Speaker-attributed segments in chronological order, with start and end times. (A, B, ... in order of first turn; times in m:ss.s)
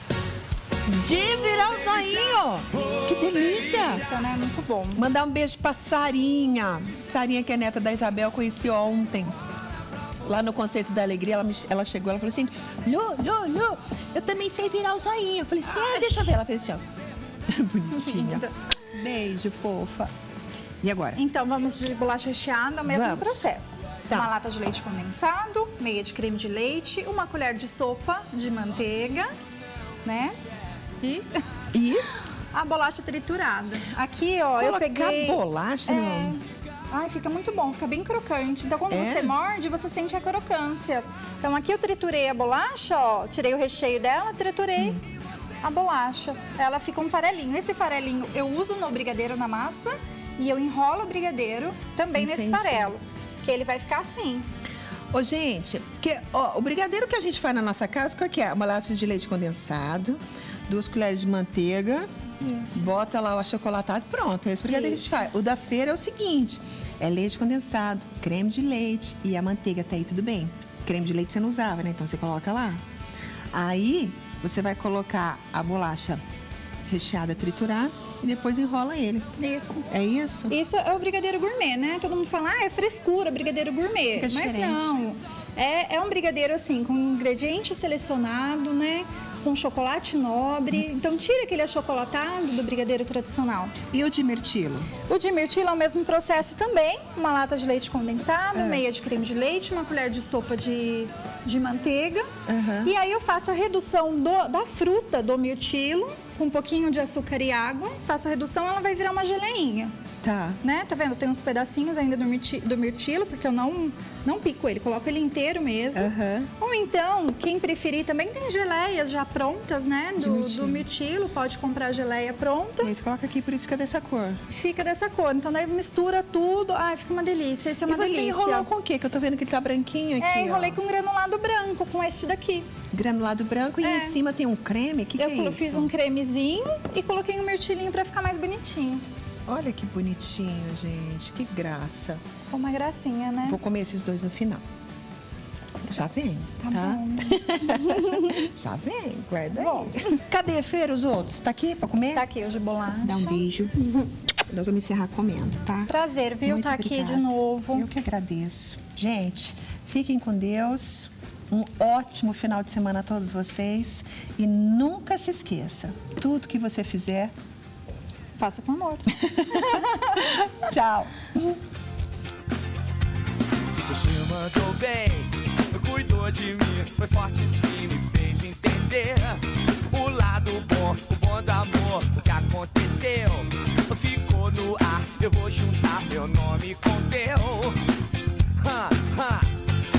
0:00.9-0:04.0 A
0:04.0-0:05.0 B
0:04.9-0:09.3 A
0:10.2-0:16.8 A
0:17.5-0:20.1 A
0:18.1-0:18.5 B
0:20.8-0:21.2 A
0:21.2-0:29.3 B
0:22.8-0:23.5 A
0:24.0-0:24.3 A
0:30.0-0:30.4 B
0:31.0-0:31.3 B
0:31.7-0:32.1 A
0:32.5-0:45.0 B
0:34.6-0:36.4 A
0:38.9-0:39.4 A
0:45.6-0:54.5 B
0:52.2-0:52.9 A
0:55.1-1:12.8 A
1:02.4-1:02.7 B
1:04.7-1:05.0 B
1:13.5-1:16.2 A
1:16.9-1:19.3 A
1:19.4-1:19.9 B
1:19.9-1:20.6 A
1:20.5-1:33.8 B
1:24.1-1:25.0 A
1:33.9-1:35.0 A
1:35.0-1:42.3 B
1:38.5-1:38.8 A
1:42.5-1:43.0 A
1:42.8-1:49.9 B
1:50.2-1:50.6 A
1:50.6-2:02.9 B
1:55.9-1:56.5 A
2:00.2-2:00.9 A
2:02.8-2:04.4 A
2:04.5-2:08.7 B
2:07.8-2:10.8 A
2:10.2-2:12.7 B
2:12.9-2:15.9 A
2:13.8-2:14.2 B
2:15.2-2:19.0 B
2:19.5-2:22.2 A
2:22.5-2:23.6 B
2:23.4-2:24.6 A
2:25.8-2:32.3 A
2:26.6-2:28.2 B
2:29.6-2:29.9 B
2:32.2-2:33.4 B
2:33.0-2:47.3 A
2:35.9-2:37.9 B
2:48.4-2:49.7 B
2:49.2-2:51.6 A
2:53.7-3:07.8 C
3:08.6-3:09.5 C